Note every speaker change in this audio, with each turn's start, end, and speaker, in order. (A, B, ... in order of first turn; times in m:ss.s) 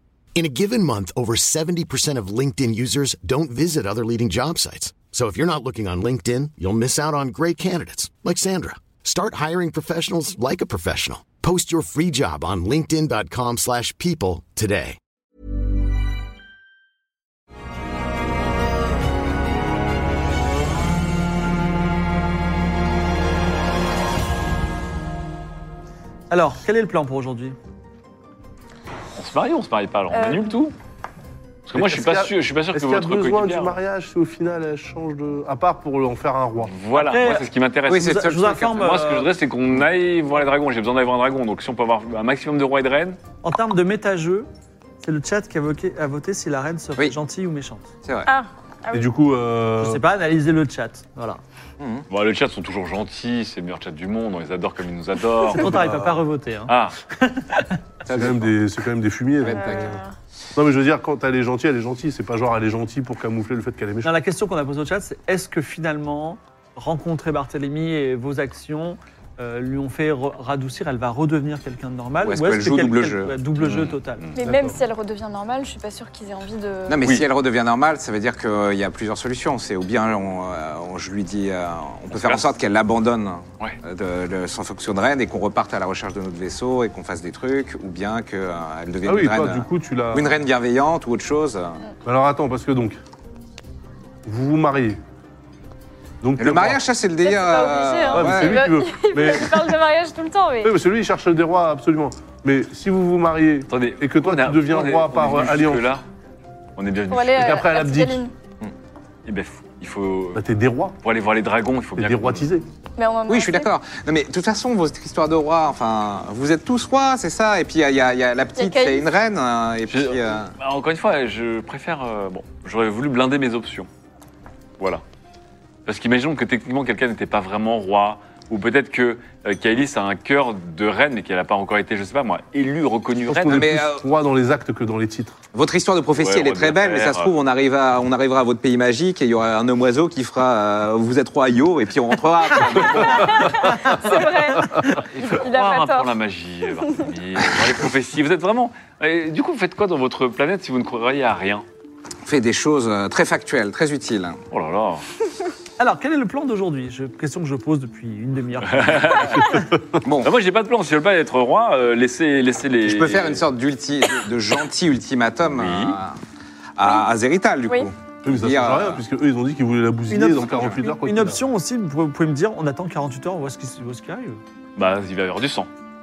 0:00.4-0:15.0 A
0:26.3-0:27.6 B
0:29.2-0:30.7 C
0:30.1-0:30.6 D
0:31.7-0:33.8 C
0:31.7-0:36.8 E
0:36.7-0:43.2 C
0:36.9-0:37.5 B
0:37.9-0:38.8 F
0:38.0-0:39.3 B
0:43.4-0:44.5 B
0:45.0-0:47.9 B
0:48.3-0:49.0 D
0:48.9-0:50.0 E
0:49.8-0:51.4 B
0:51.8-0:52.0 F
0:52.1-0:55.7 C
0:55.5-0:57.8 B
0:55.6-0:56.2 E
0:56.7-0:57.0 C
0:58.1-0:58.5 F
0:58.1-1:00.0 E
0:59.4-1:00.0 F
0:59.4-1:00.1 D
1:00.6-1:04.1 E
1:04.0-1:14.8 B
1:12.2-1:13.4 F
1:13.6-1:14.4 C
1:14.4-1:17.0 D
1:16.9-1:31.8 F
1:22.1-1:22.5 C
1:29.0-1:30.4 E
1:32.0-1:33.0 E
1:34.3-1:35.0 E
1:36.2-1:36.8 E
1:36.4-1:38.7 F
1:37.2-1:40.7 D
1:38.1-1:39.8 E
1:40.6-1:45.9 E
1:43.7-1:46.0 C
1:46.8-1:47.6 C
1:47.1-1:48.3 D
1:47.4-1:48.2 E
1:49.3-1:50.4 C
1:50.4-1:51.0 E
1:51.0-1:52.5 C
1:52.0-1:52.7 E
1:53.0-1:53.7 D
1:53.3-2:00.5 F
1:58.6-1:59.1 D
1:59.9-2:03.9 C
2:05.9-2:13.7 C
2:13.3-2:15.4 E
2:13.5-2:14.0 F
2:15.5-2:23.6 F
2:16.2-2:17.3 C
2:23.1-2:26.1 D
2:24.1-2:31.6 C
2:32.3-2:34.4 F
2:34.5-2:35.0 C
2:35.8-2:39.6 B
2:38.7-2:39.6 C
2:40.0-2:40.3 F
2:40.2-2:43.4 C
2:42.8-2:46.2 F
2:45.5-2:46.0 C
2:46.8-2:49.0 F
2:46.8-2:47.1 D
2:48.2-2:51.4 E
2:50.1-2:54.4 B
2:50.4-2:50.8 F
2:54.8-2:55.7 C